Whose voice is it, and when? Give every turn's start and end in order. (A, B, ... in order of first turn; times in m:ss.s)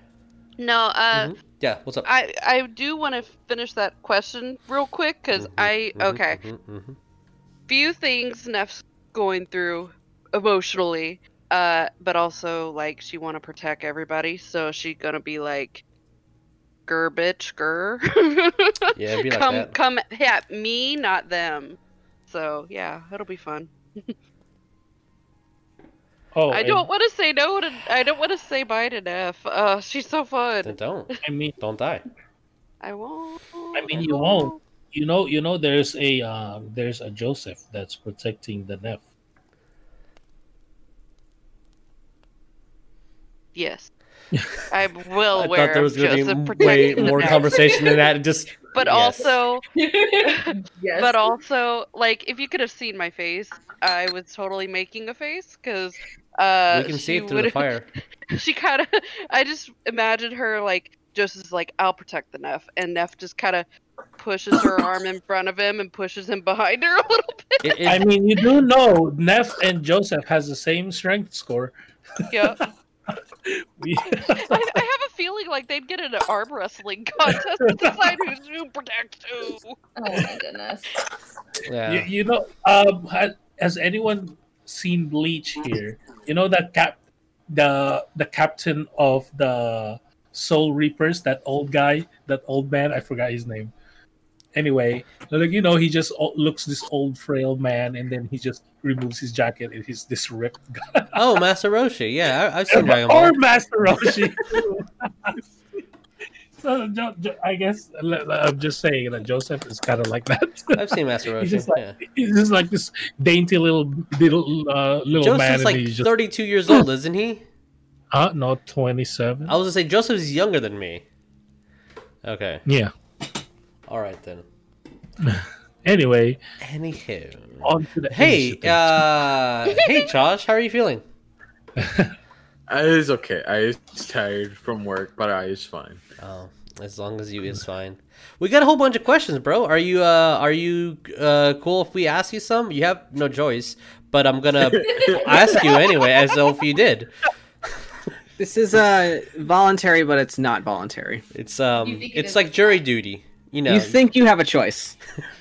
0:00.6-0:01.3 A
0:01.1-0:02.1 B
0:02.0-0:06.4 A
0:05.3-0:07.0 B
0:07.7-0:15.8 A
0:16.9-0:24.1 A
0:18.9-0:19.7 B
0:26.3-0:26.9 C
0:26.5-0:30.8 A
0:30.6-0:32.0 B
0:31.2-0:31.6 C
0:32.8-0:34.6 A
0:33.7-0:39.0 C
0:43.5-0:43.9 A
0:44.7-0:47.8 A
0:45.3-0:49.3 B
0:46.6-0:47.9 D
0:48.7-0:49.6 A
0:49.2-0:51.3 D
0:50.2-0:57.7 A
0:56.7-0:57.8 B
0:58.3-1:03.6 A
1:04.2-1:07.7 A
1:07.6-1:08.1 B
1:07.8-1:11.7 C
1:12.3-1:12.6 A
1:12.6-1:14.7 C
1:14.2-1:19.8 A
1:17.3-1:17.9 C
1:20.0-1:20.9 D
1:21.6-1:22.1 B
1:21.9-1:27.0 C
1:27.5-1:33.7 C
1:34.5-1:41.2 C
1:41.1-1:43.4 B
1:42.7-1:45.4 C
1:46.6-1:50.8 C
1:50.7-1:52.0 B
1:51.4-1:56.1 C
1:55.1-1:57.4 B
1:58.1-1:59.6 C
1:59.4-2:01.0 B
2:02.2-2:02.6 B
2:02.6-2:02.9 C
2:03.9-2:04.4 B
2:05.2-2:06.4 C
2:06.6-2:11.0 B
2:07.6-2:09.0 C
2:11.8-2:12.1 C
2:12.7-2:16.0 E
2:16.2-2:27.1 B
2:24.6-2:25.6 E
2:24.8-2:26.0 D
2:28.4-2:31.2 F
2:31.3-2:34.0 B
2:31.8-2:32.8 D
2:33.7-2:35.0 F